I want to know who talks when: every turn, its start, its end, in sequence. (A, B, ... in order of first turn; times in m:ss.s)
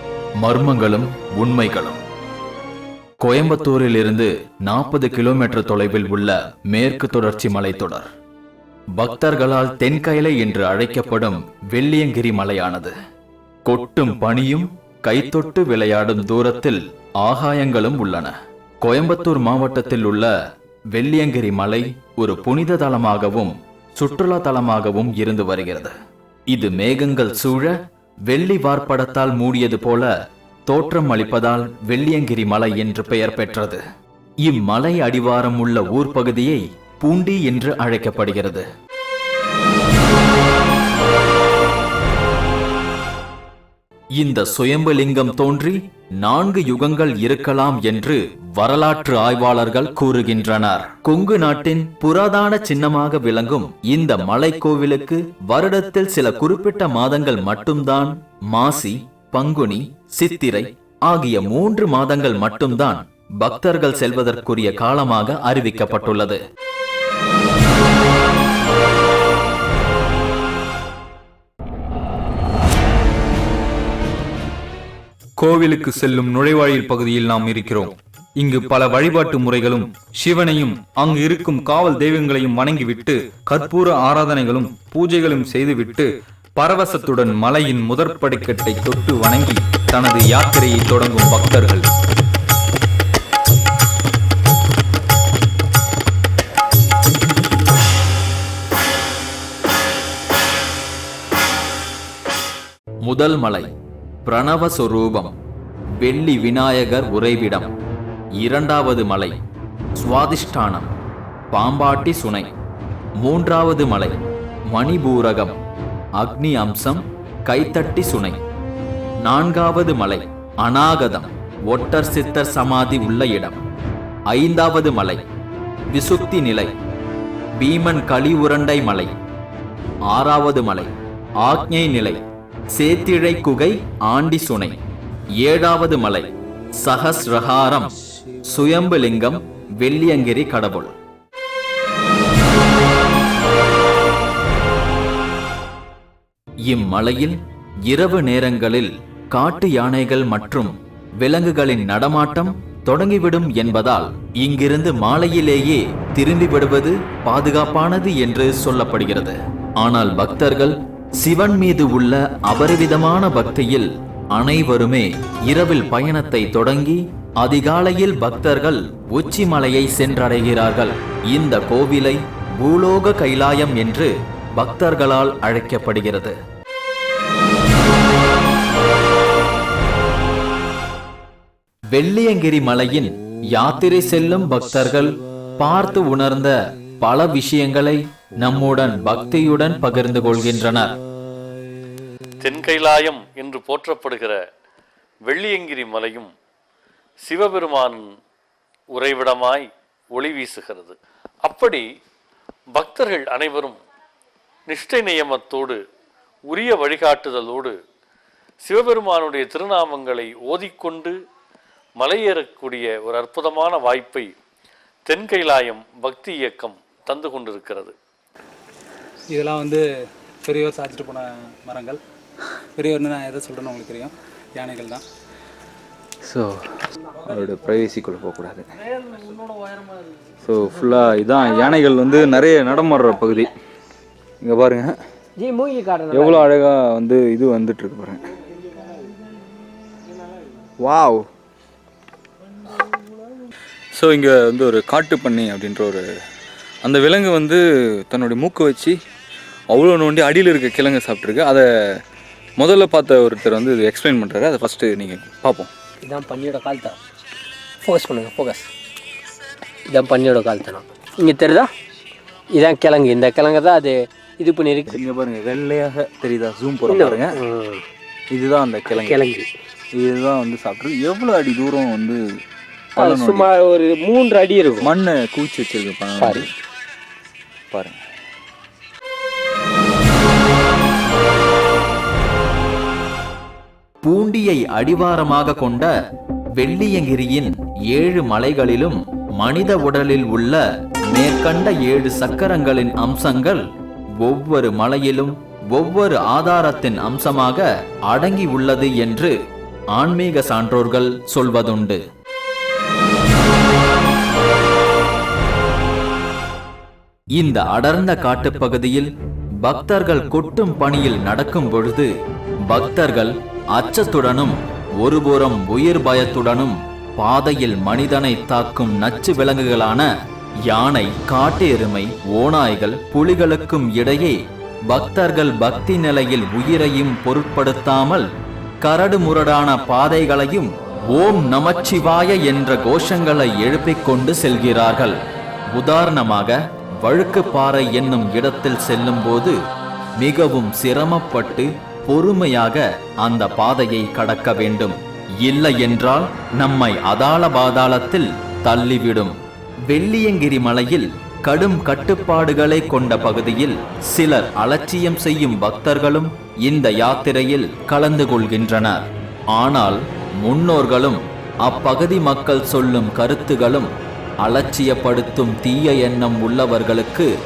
0:00.4-0:02.0 A
0:03.2-0:08.1 A
0:09.0-0:12.9 A
0:13.7-0:20.3 A
0:20.9-0:25.9 A
0:26.5-0:27.7 A
0:28.3-0:30.1 A
0:30.7-0:33.8 A
0:34.4-0:38.6 A
0:44.2-1:06.4 A
1:15.4-1:31.9 B
1:43.0-1:43.7 A
1:44.2-1:45.3 A
1:46.0-1:47.7 A
1:48.4-1:49.4 A
1:50.0-1:50.9 A
1:51.5-1:52.5 A
1:53.2-1:54.2 A
1:54.7-1:55.6 A
1:56.2-1:58.4 A
1:59.2-2:03.6 A
2:04.3-2:05.3 A
2:05.9-2:06.7 A
2:07.6-2:09.2 A
2:10.1-2:12.2 A
2:12.8-2:14.8 A
2:15.4-2:18.0 A
2:18.5-2:20.9 A
2:26.7-2:56.4 A
3:01.9-3:11.0 A
3:12.4-3:14.4 C
3:15.3-3:16.3 C
3:17.2-3:18.1 C
3:18.9-3:21.8 C
3:22.8-3:23.8 C
3:24.7-3:25.8 C
3:26.5-3:27.8 C
3:28.6-3:31.2 C
3:32.0-3:34.3 C
3:35.1-3:37.9 C
3:39.3-3:42.0 D
3:42.8-3:45.0 D
3:46.2-3:46.5 B
3:47.2-3:48.7 B
3:50.4-3:53.5 B
3:54.4-3:55.0 B
3:55.4-3:56.5 E
3:56.1-3:58.2 B
4:00.8-4:01.3 B
4:03.9-4:06.0 B
4:06.8-4:09.0 B
4:09.7-4:11.7 B
4:12.6-4:15.7 B
4:16.0-4:17.0 E
4:17.8-4:18.7 E
4:19.9-4:21.7 E
4:22.5-4:25.0 E
4:24.9-4:27.4 B
4:26.8-4:27.8 E
4:28.3-4:29.3 B
4:28.9-4:29.5 E
4:29.9-4:32.2 B
4:33.0-4:33.5 B
4:33.0-4:34.9 E
4:34.8-4:36.5 B
4:36.2-4:36.5 E
4:37.7-4:38.0 B
4:44.0-4:45.9 A
4:46.6-4:53.6 A
4:54.2-4:59.4 A
5:00.0-5:02.0 A
5:07.4-5:09.1 A
5:09.6-5:12.1 A
5:12.7-5:20.1 A
5:20.7-5:24.4 A
5:24.9-5:28.3 A
5:28.8-5:35.2 A
5:35.7-5:39.6 A
5:40.2-5:49.4 A
5:49.9-6:07.3 A